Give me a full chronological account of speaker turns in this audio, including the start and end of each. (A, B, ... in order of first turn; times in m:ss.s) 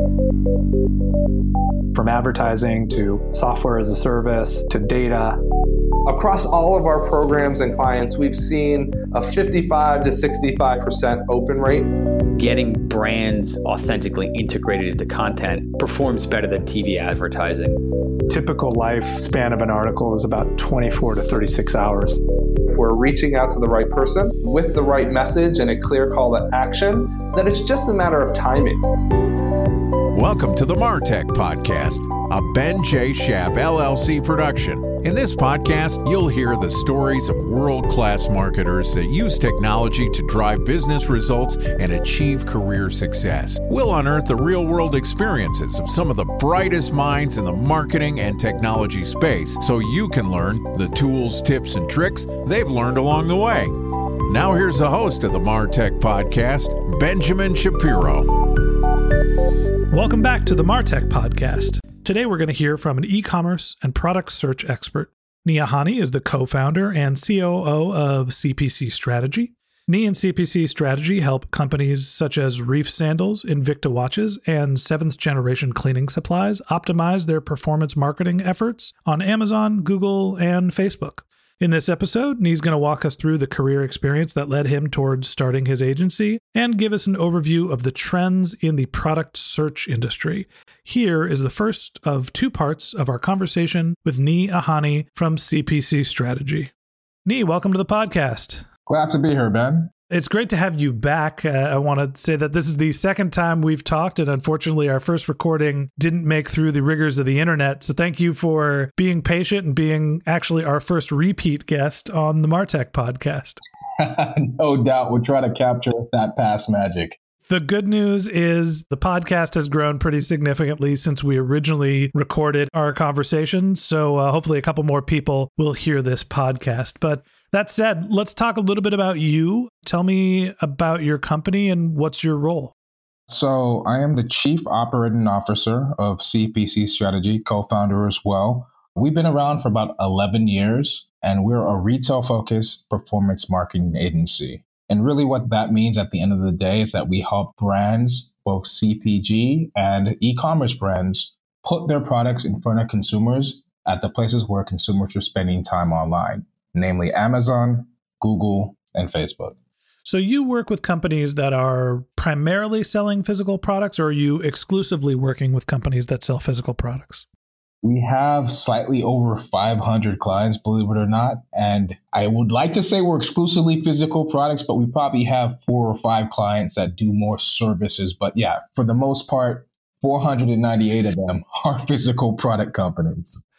0:01.9-0:05.4 A
0:06.0-0:11.9 B
0:12.4-0:17.8 C
0:18.3-0:22.2 A
0:22.7-0:28.8 B
0:30.1-0:58.3 D
0:59.9-1:36.7 E
1:37.2-1:38.6 E
1:38.9-1:39.9 F
1:40.1-1:53.6 E
1:54.0-1:57.2 F
1:57.4-2:12.7 E
2:13.3-2:39.6 F
2:40.0-2:47.2 E
2:47.8-3:03.4 F